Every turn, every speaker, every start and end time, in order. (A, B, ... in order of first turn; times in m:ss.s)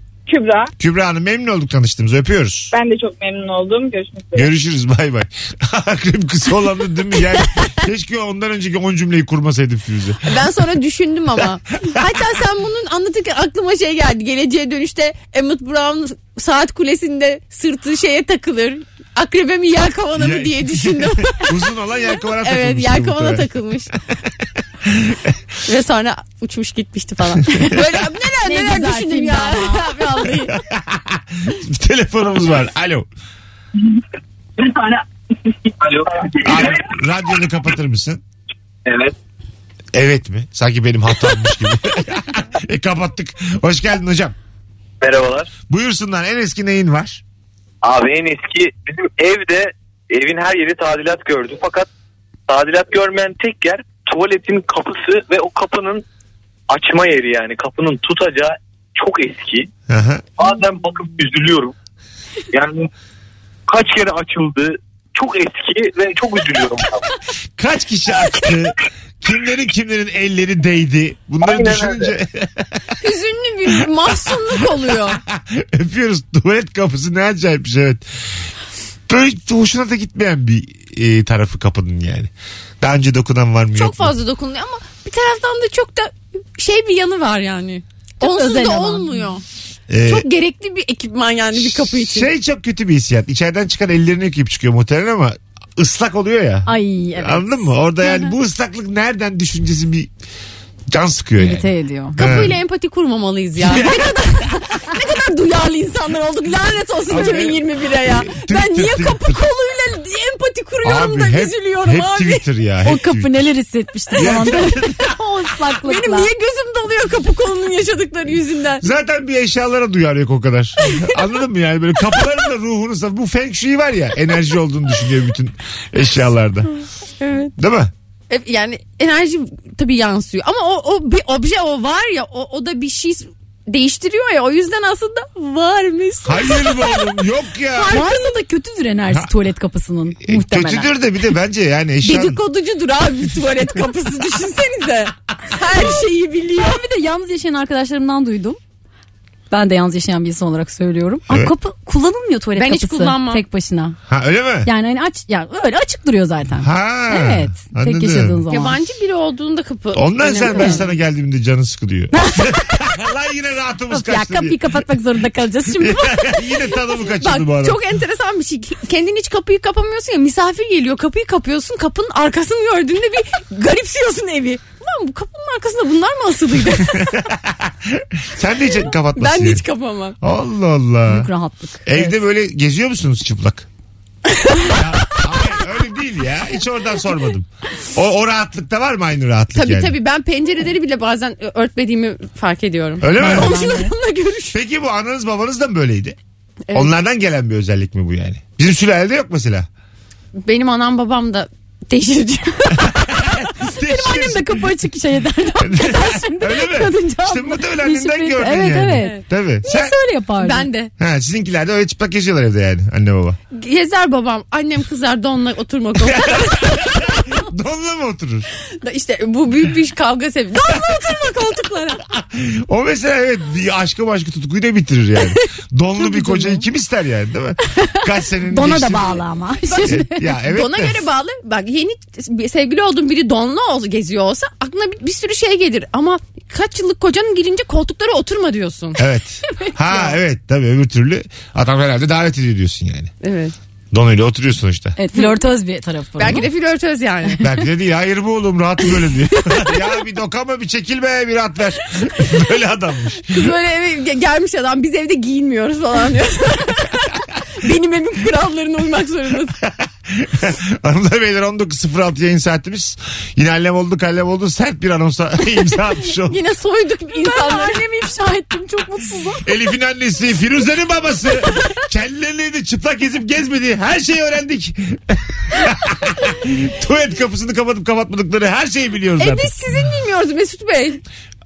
0:00.3-0:00.6 A
0:00.8-0:02.7 B
0:02.7-0:04.4 A
0:04.3-0:10.3 B
0:10.2-0:21.6 C
0:20.2-0:23.5 B
0:22.2-0:23.9 C
0:24.8-0:25.3 B
0:25.6-0:30.5 C
0:28.4-0:29.9 D
0:30.5-0:33.1 B
0:35.8-0:36.8 E
0:36.4-0:38.2 B
0:38.8-0:39.1 E
0:39.9-0:44.4 B
0:45.0-0:45.5 E
0:45.7-0:47.2 B
0:47.8-0:51.9 E
0:52.5-0:56.0 E
0:56.7-0:59.7 E
0:59.9-1:00.2 B
1:00.4-1:01.7 E
1:02.5-1:02.9 E
1:03.7-1:07.1 E
1:07.6-1:12.8 B
1:11.4-1:12.1 E
1:13.0-1:15.2 C
1:13.7-1:18.0 B
1:19.1-1:24.1 B
1:23.7-1:29.4 C
1:28.2-1:29.3 D
1:29.9-1:30.3 B
1:30.0-1:32.3 C
1:31.7-1:40.1 B
1:36.6-1:37.7 D
1:40.9-1:42.6 B
1:41.4-1:42.2 D
1:42.1-1:52.4 C
1:47.1-1:49.4 B
1:50.8-1:53.5 B
1:52.8-1:56.3 D
1:54.1-1:54.4 C
1:54.2-1:55.1 B
1:55.8-1:58.8 C
1:58.8-2:06.7 B
2:07.2-2:07.5 C
2:07.6-2:07.9 B
2:08.3-2:18.2 C
2:16.2-2:18.0 B
2:17.8-2:20.9 D
2:20.2-2:22.4 B
2:22.0-2:26.8 C
2:26.6-2:28.6 D
2:29.5-2:34.0 D
2:32.6-2:33.4 C
2:34.1-2:34.7 B
2:34.6-2:38.8 D
2:36.6-2:38.4 B
2:38.5-2:40.9 C
2:39.9-2:44.7 B
2:40.4-2:40.9 D
2:42.1-2:42.5 D
2:43.9-2:46.4 D
2:45.8-2:47.8 B
2:47.2-2:57.3 C
2:57.3-2:59.6 B
2:58.9-3:00.2 C
3:00.2-3:01.3 B
3:01.0-3:02.2 D
3:01.8-3:03.7 B
3:04.3-3:05.1 C
3:04.7-3:10.0 B
3:09.5-3:14.6 C
3:13.0-3:13.6 B
3:13.1-3:13.9 D
3:14.5-3:16.2 B
3:16.7-3:19.7 B
3:20.4-3:22.9 C
3:23.1-3:24.6 B
3:23.8-3:30.7 D
3:25.6-3:29.9 B
3:29.0-3:29.8 C
3:30.4-3:30.9 C
3:31.0-3:33.4 B
3:33.5-3:37.2 C
3:36.0-3:38.5 B
3:38.8-3:42.1 C
3:42.2-3:49.2 B
3:46.2-3:46.5 C
3:47.7-3:50.4 D
3:49.7-3:59.0 C
3:49.8-3:51.0 B
3:59.0-4:03.1 B
4:03.2-4:03.5 C
4:03.9-4:05.0 B
4:05.0-4:06.5 D
4:06.2-4:07.4 C
4:07.4-4:13.5 B
4:13.3-4:19.5 C
4:19.6-4:26.4 B
4:26.3-4:27.8 C
4:27.1-4:29.4 D
4:29.4-4:39.5 B
4:39.2-4:41.0 C